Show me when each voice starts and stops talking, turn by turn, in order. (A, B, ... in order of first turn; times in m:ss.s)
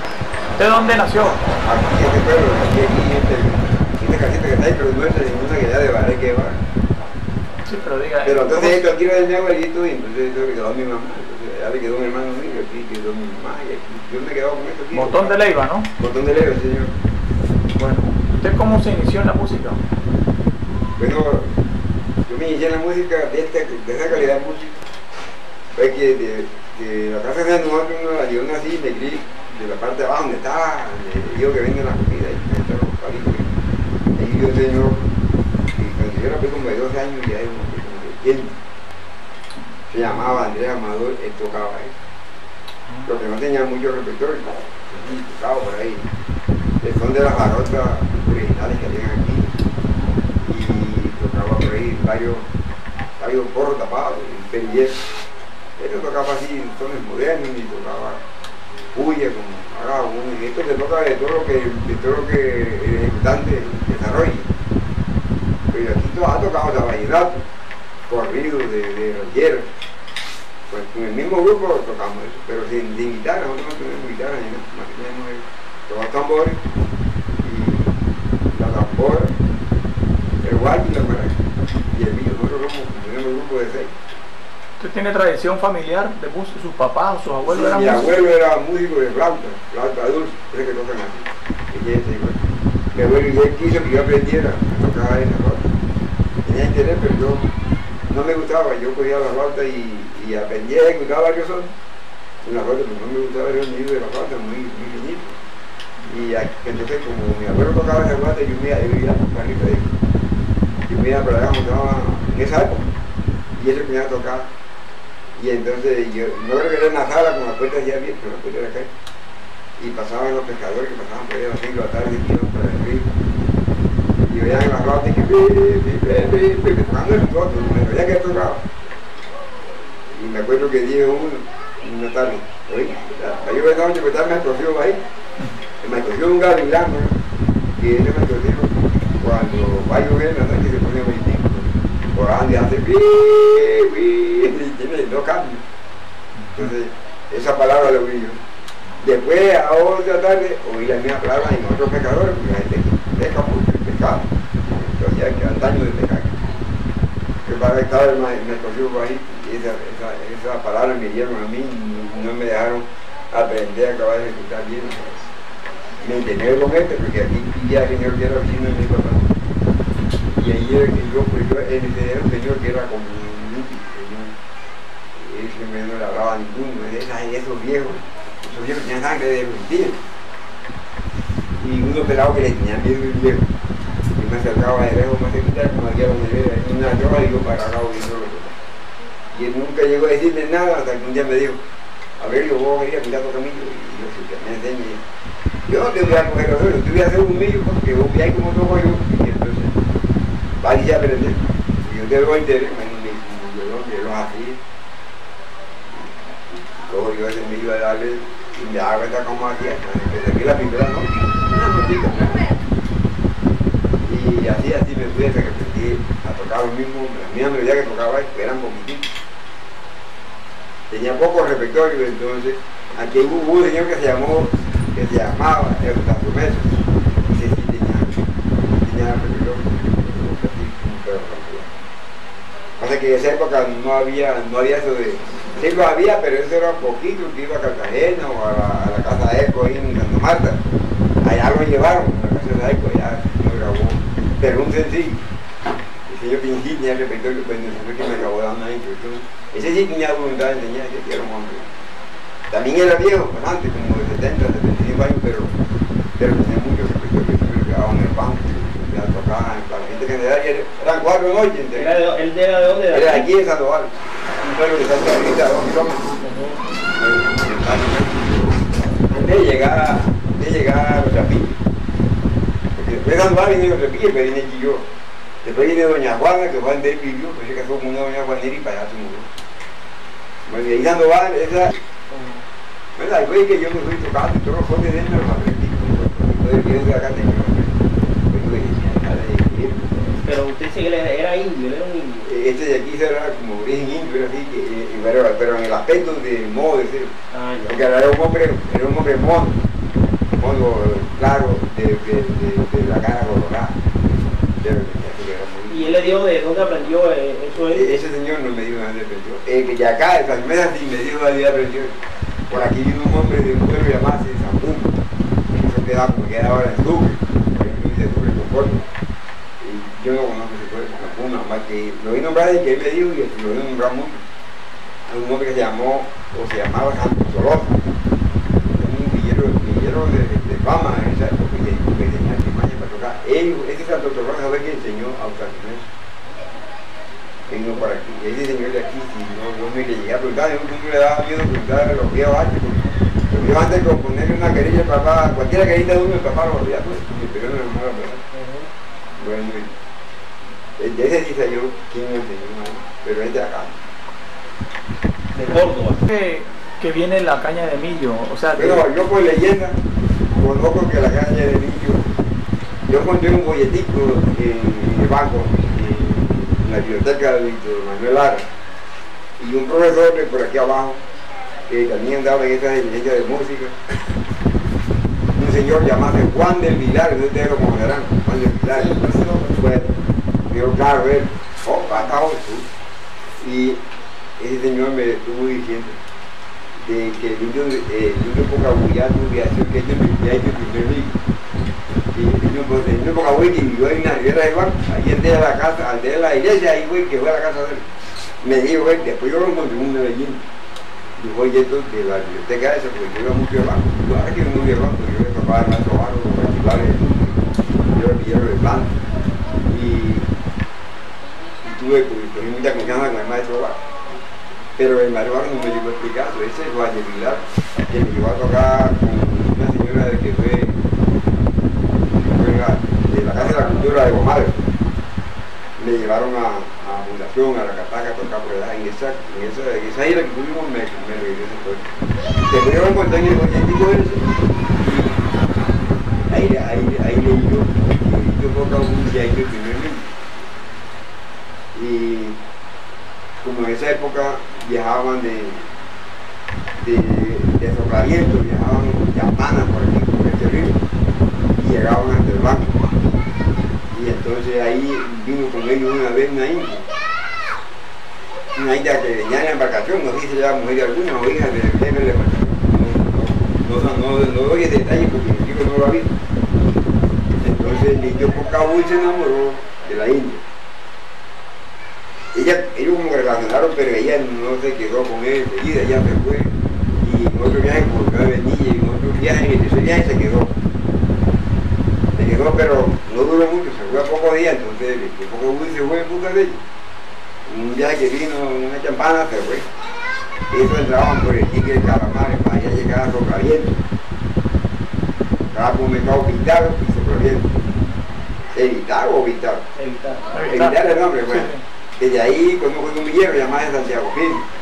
0:00.6-0:01.4 A
0:01.4-0:06.6 B
0:07.7-0:08.8 A
0:08.2-0:16.9 B
0:14.9-0:15.9 A
0:17.8-0:19.8 A
0:21.0-0:21.5 B
0:22.3-0:24.8 B
0:25.8-0:33.5 B
0:34.2-0:35.0 B
0:35.7-0:38.5 B
0:39.9-0:41.9 B
0:43.0-0:46.0 B
0:46.8-0:49.5 B
0:50.4-0:52.4 B
0:53.2-0:55.0 B
0:55.8-0:58.2 B
0:58.9-1:04.5 B
1:05.7-1:07.4 B
1:08.1-1:09.7 B
1:10.7-1:16.6 B
1:17.4-1:19.3 B
1:20.4-1:21.3 B
1:21.9-1:23.9 B
1:24.8-1:28.0 A
1:27.4-1:32.4 B
1:33.0-1:35.7 B
1:36.4-1:37.5 B
1:38.1-1:41.7 B
1:42.4-1:45.4 B
1:46.0-1:50.0 B
1:50.9-1:52.9 B
1:53.6-1:54.5 B
1:55.4-1:58.9 B
1:59.8-2:03.1 B
2:04.2-2:08.6 B
2:10.1-2:15.0 B
2:15.8-2:17.2 B
2:17.8-2:25.6 B
2:26.4-2:26.7 A
2:26.6-2:28.4 B
2:29.0-2:36.4 B
2:37.4-2:45.2 B
2:46.0-2:49.3 B
2:50.3-2:54.3 B
2:55.2-3:00.0 B
3:01.6-3:03.4 B
3:04.1-3:08.5 B
3:09.3-3:11.6 B
3:12.2-3:15.0 B
3:15.7-3:19.8 B
3:20.6-3:24.6 B
3:26.8-3:32.5 B
3:34.1-3:39.0 B
3:40.9-3:48.1 B
3:48.8-3:51.7 B
3:52.8-4:00.6 B
4:01.2-4:05.2 B
4:06.1-4:11.7 B
4:12.5-4:15.6 B
4:16.2-4:22.0 B
4:21.7-4:23.3 C
4:22.9-4:26.2 B
4:26.2-4:26.6 C
4:26.9-4:31.6 B
4:32.7-4:34.8 B
4:35.4-4:39.3 B
4:40.5-4:41.8 B
4:42.1-4:42.5 C
4:43.0-4:49.9 B
4:50.0-4:52.3 C
4:52.2-4:57.1 B
4:57.3-4:57.9 C
4:57.7-4:59.6 B
5:00.4-5:03.8 B
5:04.6-5:06.2 B
5:05.7-5:08.0 C
5:07.6-5:11.9 B
5:12.5-5:15.0 B
5:15.5-5:18.8 B
5:19.6-5:24.2 B
5:25.1-5:27.8 B
5:28.8-5:35.8 B
5:37.5-5:48.2 B
5:48.3-5:48.7 C
5:49.2-5:49.7 B
5:50.8-5:53.7 B
5:55.3-5:56.1 C
5:56.1-5:58.8 A
5:58.6-5:59.8 B
6:00.3-6:02.1 B
6:02.9-6:08.4 B
6:09.4-6:11.0 B
6:11.7-6:13.7 B
6:15.4-6:20.0 B
6:20.5-6:22.7 B
6:23.4-6:23.8 B
6:24.4-6:26.0 B
6:26.8-6:31.2 B
6:32.1-6:37.8 B
6:38.4-6:40.4 B
6:41.2-6:48.9 B
6:49.7-6:50.3 B
6:51.6-6:53.8 B
6:54.8-7:00.8 B
7:02.2-7:04.6 B
7:05.8-7:11.9 B
7:12.4-7:15.3 B
7:16.3-7:20.0 B
7:21.7-7:22.4 B
7:23.4-7:25.7 B
7:26.8-7:30.8 B
7:31.6-7:32.8 B
7:33.9-7:36.9 B
7:38.5-7:46.1 B
7:47.4-7:50.4 B
7:52.3-8:00.6 B
8:02.1-8:06.6 B
8:07.5-8:09.6 B
8:10.5-8:13.8 B
8:15.5-8:17.5 B
8:18.5-8:19.6 B
8:19.8-8:20.3 C
8:20.3-8:20.8 A
8:20.4-8:24.4 B
8:21.3-8:21.6 A